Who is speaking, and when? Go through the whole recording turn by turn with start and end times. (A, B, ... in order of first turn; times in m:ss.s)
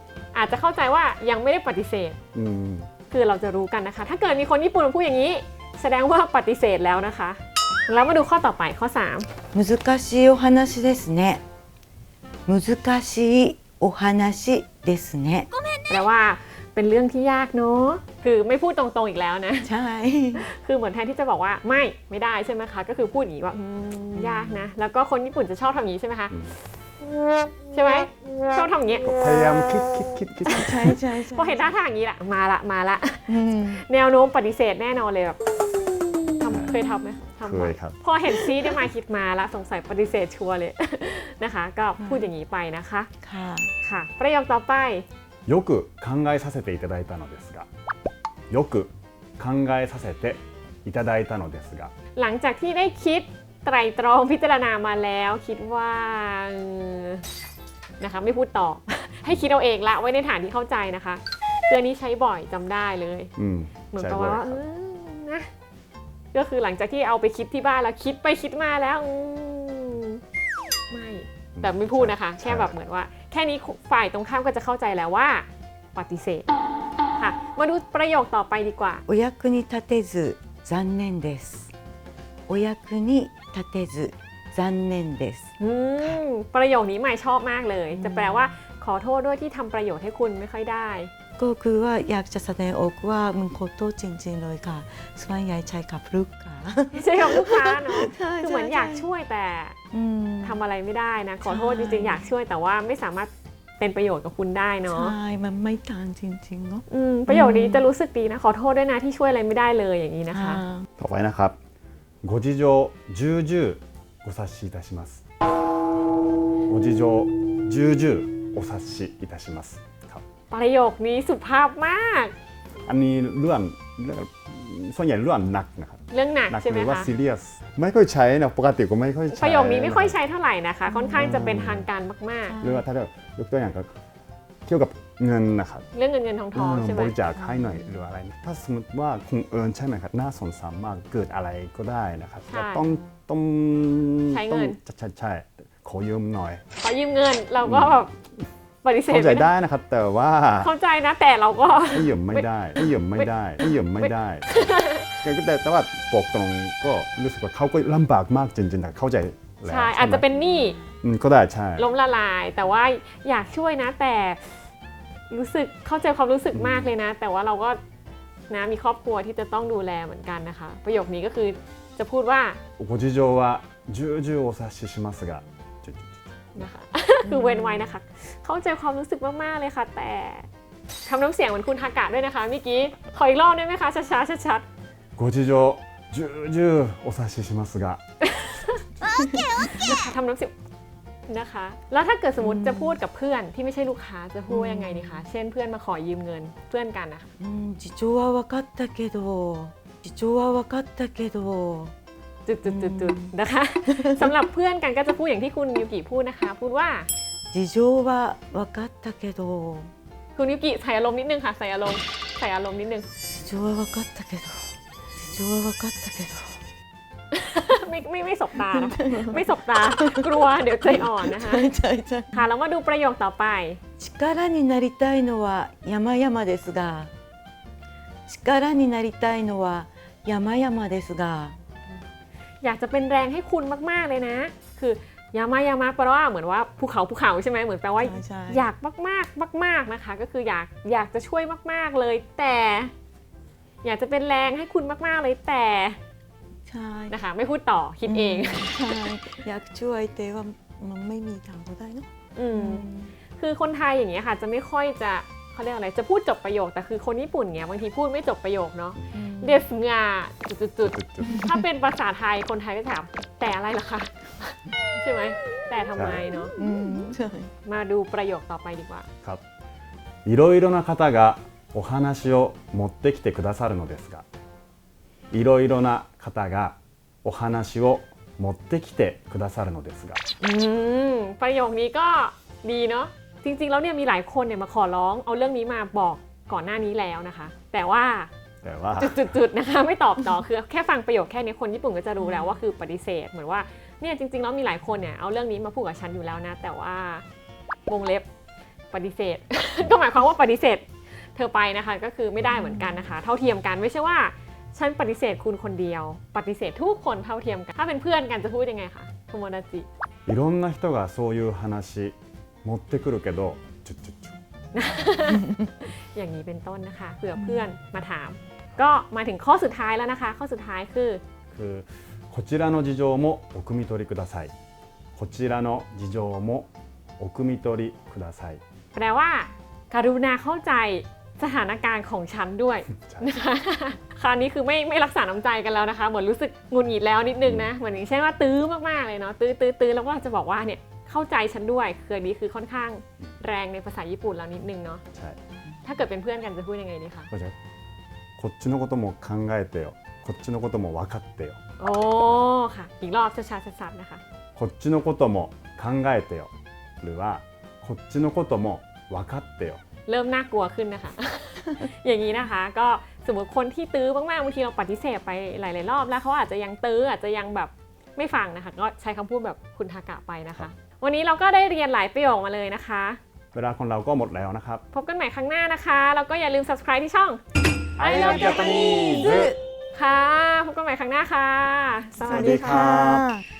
0:00.3-0:02.2 A
0:02.3-0:02.9 B
0:03.1-0:09.3 A
0:09.5-0:11.4 C
0:12.5-0:15.5 C
0:15.9-0:19.7 A
0:19.6-0:20.5 C
0:20.4-0:26.4 A
0:24.2-0:24.7 C
0:26.3-0:26.6 B
0:27.7-0:29.1 A
0:29.0-0:31.0 B
0:30.4-0:31.7 C
0:31.2-0:35.4 A
0:33.3-0:33.8 C
0:36.4-0:43.1 A
0:36.5-0:36.7 B
0:37.4-0:38.0 B
0:42.0-0:42.3 C
0:43.2-0:43.7 C
0:43.8-0:45.1 A
0:45.5-0:47.7 B
0:48.5-0:51.9 B
0:52.2-0:57.2 A
0:58.0-1:03.3 A
1:03.4-1:04.6 B
1:03.9-1:05.5 A
1:06.3-1:10.2 A
1:10.9-1:16.5 A
1:11.6-1:12.8 B
1:17.2-1:19.0 A
1:19.1-1:21.7 C
1:22.5-1:26.2 C
1:25.6-1:31.1 A
1:27.9-1:28.6 C
1:31.4-1:39.1 C
1:36.9-1:39.8 A
1:39.9-1:40.6 C
1:40.4-1:45.2 A
1:41.4-1:42.3 C
1:44.9-1:47.9 C
1:46.9-1:50.6 A
1:50.3-1:50.9 C
1:51.0-1:51.6 B
1:52.2-1:55.2 B
1:56.7-2:00.2 B
2:00.5-2:02.3 A
2:02.9-2:10.2 B
2:06.1-2:07.1 A
2:09.3-2:12.6 A
2:10.9-2:11.4 C
2:11.2-2:11.9 B
2:12.4-2:12.9 C
2:12.6-2:13.9 B
2:14.6-2:15.9 B
2:15.9-2:17.2 A
2:16.5-2:26.6 B
2:17.4-2:18.0 C
2:22.5-2:22.9 A
2:24.3-2:24.8 A
2:26.8-2:28.2 A
2:27.6-2:28.0 B
2:28.8-2:29.5 A
2:29.1-2:30.7 B
2:30.6-2:35.2 A
2:31.9-2:34.6 B
2:35.1-2:40.2 B
2:39.7-2:40.8 A
2:40.3-2:40.9 C
2:41.0-2:41.8 B
2:41.8-2:44.6 A
2:45.3-2:47.8 A
2:46.5-2:46.9 B
2:48.5-2:52.6 A
2:52.8-2:56.6 B
2:56.6-3:00.5 A
2:57.2-2:57.9 C
3:01.1-3:04.6 A
3:05.2-3:08.0 B
3:08.2-3:08.8 A
3:09.0-3:10.0 C
3:09.6-3:10.5 A
3:11.3-3:17.3 A
3:12.4-3:13.0 C
3:14.5-3:15.2 C
3:17.4-3:21.9 C
3:22.5-3:27.1 A
3:22.7-3:23.3 C
3:23.9-3:24.3 C
3:27.5-3:29.9 C
3:30.4-3:33.1 A
3:33.3-3:36.6 C
3:37.3-3:41.7 A
3:38.6-3:42.4 C
3:42.3-3:43.8 A
3:44.0-3:47.1 C
3:48.3-3:51.6 C
3:52.6-4:02.9 A
3:58.0-3:58.7 C
4:03.8-4:06.0 A
4:06.7-4:07.2 C
4:07.1-4:09.1 A
4:08.0-4:13.1 C
4:12.4-4:26.6 A
4:19.1-4:19.6 C
4:20.8-4:21.4 B
4:21.2-4:21.6 C
4:26.0-4:26.2 B
4:26.6-4:27.5 C
4:27.6-4:29.1 A
4:30.2-4:34.2 B
4:35.3-4:40.2 B
4:40.4-4:48.3 A
4:48.6-4:49.4 B
4:49.0-4:57.2 A
4:52.2-4:52.6 C
4:57.9-4:58.3 A
4:58.9-5:09.9 A
5:02.5-5:03.0 C
5:10.3-5:14.4 B
5:14.7-5:21.2 A
5:17.4-5:17.7 C
5:21.5-5:24.5 B
5:25.2-5:26.7 B
5:27.2-5:28.6 B
5:28.9-5:45.0 A
5:32.9-5:33.3 B
5:37.4-5:37.7 B
5:45.8-5:47.3 A
5:48.4-5:51.6 B
5:51.8-5:54.2 A
5:54.6-5:56.5 B
5:57.0-5:59.8 B
6:00.1-6:13.2 A
6:13.5-6:14.8 B
6:14.9-6:17.4 A
6:18.0-6:19.5 B
6:18.0-6:23.0 A
6:22.2-6:23.3 B
6:22.3-6:23.4 C